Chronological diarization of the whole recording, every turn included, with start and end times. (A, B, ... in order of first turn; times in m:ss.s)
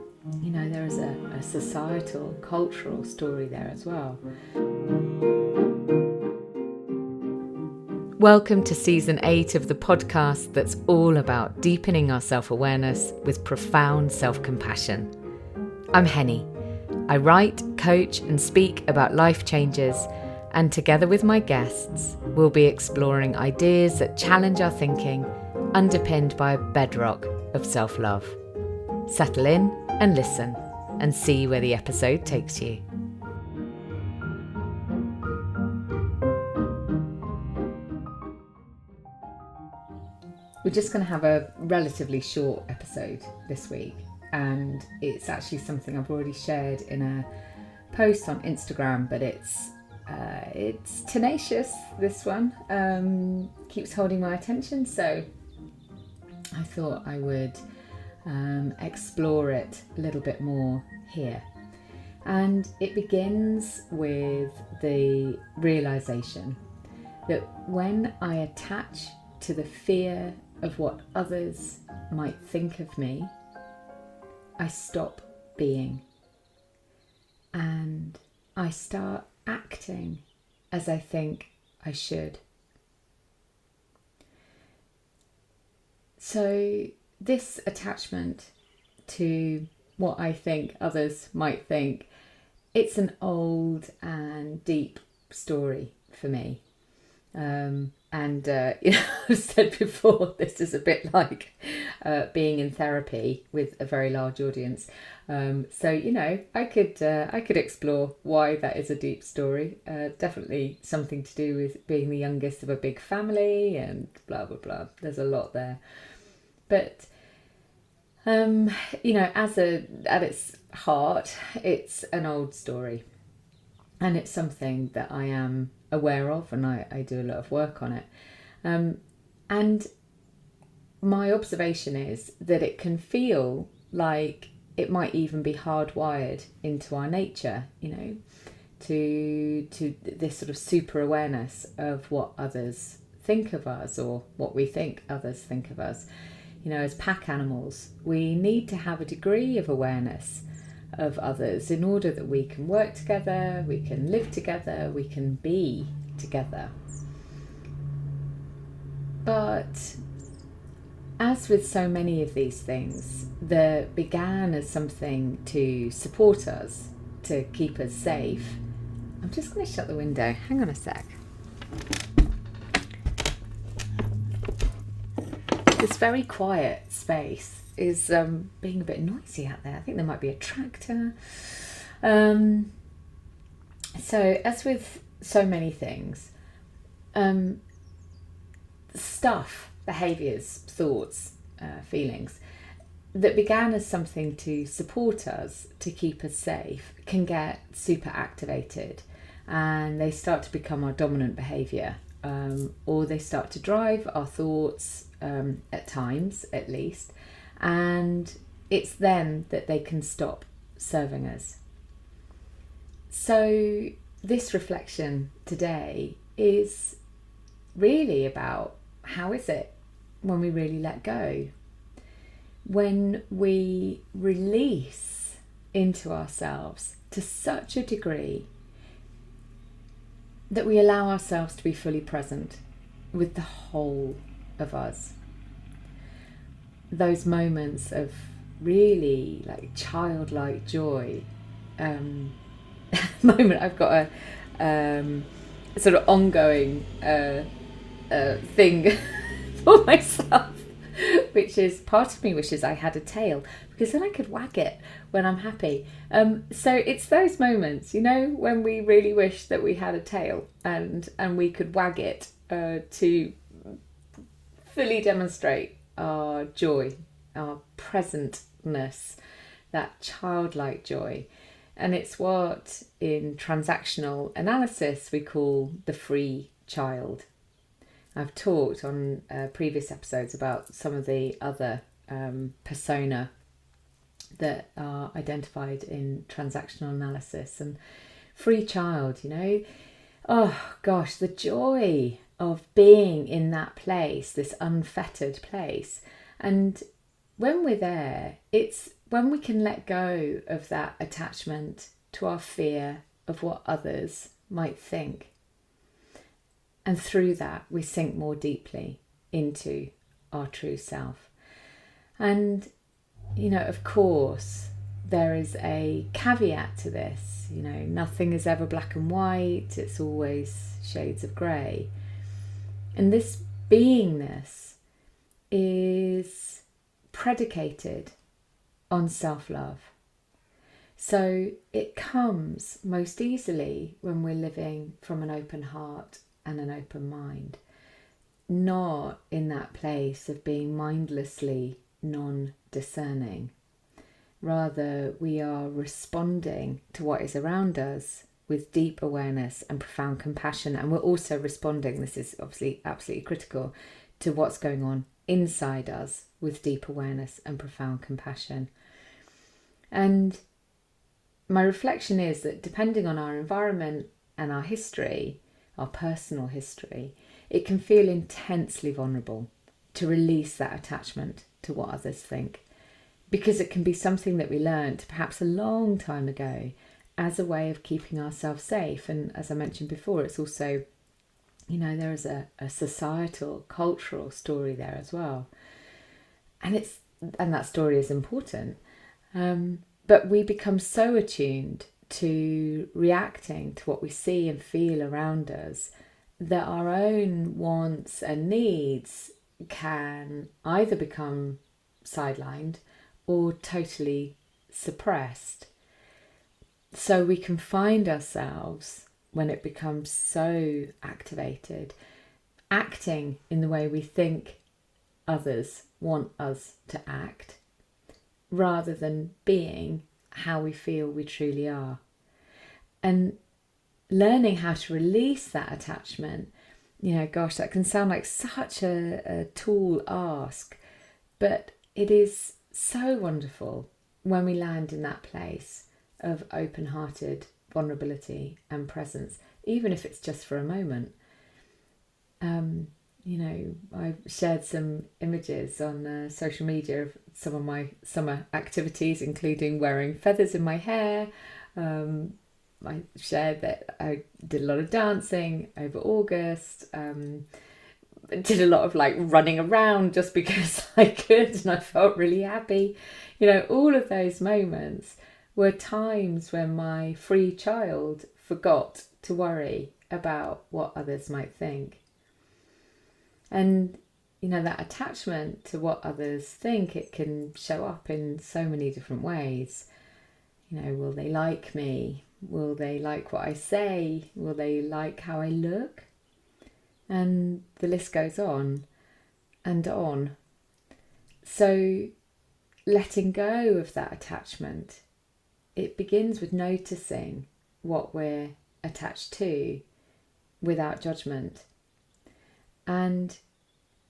0:00.4-0:04.2 A
0:08.2-0:15.1 A
0:15.9-0:16.5 A
0:17.1-0:28.4 A
0:29.1-0:32.8 A
0:40.6-0:47.3 A
0:47.9-0:55.3 A
0:56.5-0:57.6 A
0:58.3-1:01.5 A
1:02.2-1:06.6 A
1:07.3-1:13.3 A
1:14.6-1:16.0 A
1:17.5-1:22.4 A
1:26.2-1:28.5 A
1:29.1-1:32.1 A
1:32.7-1:36.6 A
1:37.4-1:55.8 A
1:56.7-1:57.1 A
1:58.3-2:03.0 A
2:04.0-2:08.1 A
2:08.6-2:09.9 A
2:11.0-2:18.2 A
2:18.8-2:26.1 A
2:26.6-2:30.4 A
2:31.0-2:36.7 A
2:39.2-2:40.0 A
2:41.2-2:48.6 A
2:49.2-2:51.2 A
2:55.8-3:02.7 A
3:04.0-3:06.3 A
3:07.1-3:07.6 A
3:08.9-3:12.4 A
3:13.1-3:31.6 A
3:33.1-3:37.0 A
3:37.8-3:41.5 A
3:42.7-3:48.5 A
3:50.5-3:52.6 A
3:53.1-3:55.2 A
3:56.9-4:01.3 A
4:01.8-4:02.4 A
4:02.9-4:07.5 A
4:08.1-4:23.8 A
4:24.6-4:29.2 A
4:29.7-4:37.3 A
4:38.2-4:43.3 A
4:44.4-4:47.8 A
4:48.4-4:49.6 A
4:50.3-4:56.8 A
4:57.4-5:05.3 A
5:06.8-5:11.3 A
5:12.2-5:12.7 A
5:13.4-5:21.9 A
5:23.0-5:24.8 A
5:25.5-5:28.1 A
5:28.9-5:29.9 A
5:31.0-5:37.6 A
5:38.5-5:43.5 A
5:44.4-5:58.7 A
5:59.9-6:00.4 A
6:01.5-6:12.6 A
6:13.3-6:20.8 A
6:21.7-6:25.5 A
6:26.6-6:28.8 A
6:29.4-6:45.7 A
6:46.9-6:52.0 A
6:52.7-6:54.6 A
6:55.3-6:57.6 A
6:58.5-7:02.0 A
7:03.0-7:03.4 A
7:04.1-7:10.8 A
7:11.4-7:21.2 A
7:22.4-7:37.4 A
7:38.3-7:52.0 A
7:53.5-7:59.9 A
8:00.7-8:06.1 A
8:07.1-8:08.9 A
8:09.6-8:10.4 A
8:11.4-8:12.1 A
8:12.9-8:15.0 A
8:15.8-8:19.8 A
8:20.6-8:21.7 A
8:22.9-8:23.4 A